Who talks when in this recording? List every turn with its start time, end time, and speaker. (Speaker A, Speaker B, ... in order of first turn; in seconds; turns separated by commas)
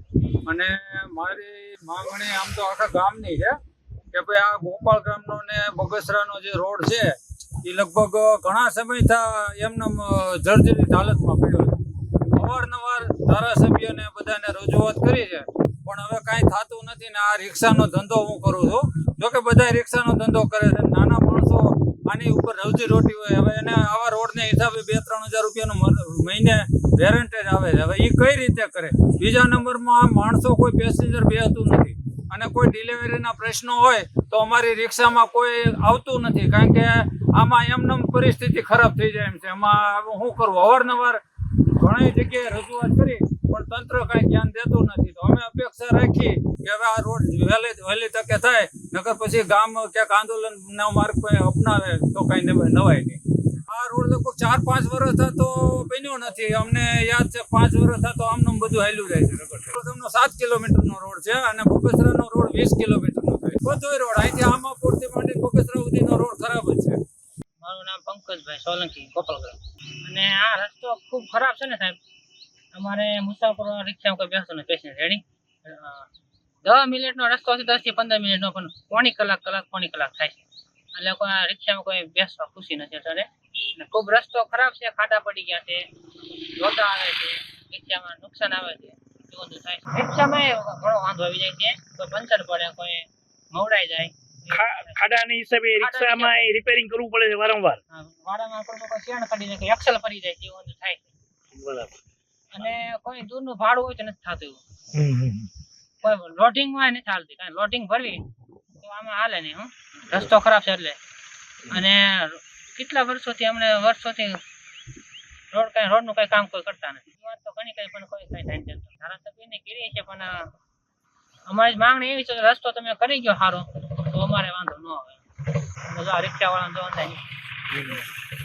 Speaker A: 0.5-3.6, Speaker A: 4.1-11.8, Speaker A: 12.3-41.2, Speaker A: 41.8-67.0, Speaker B: 67.6-72.0, Speaker B: 72.7-76.1, Speaker B: 76.6-85.9, Speaker B: 86.5-95.0, Speaker C: 94.5-97.8, Speaker B: 95.8-96.5, Speaker B: 97.9-101.1, Speaker C: 101.5-101.9, Speaker B: 102.5-104.6, Speaker C: 104.9-105.5, Speaker B: 106.0-108.2, Speaker B: 108.8-111.0, Speaker B: 111.7-114.4, Speaker B: 115.5-120.5, Speaker B: 121.5-125.2, Speaker B: 125.9-127.2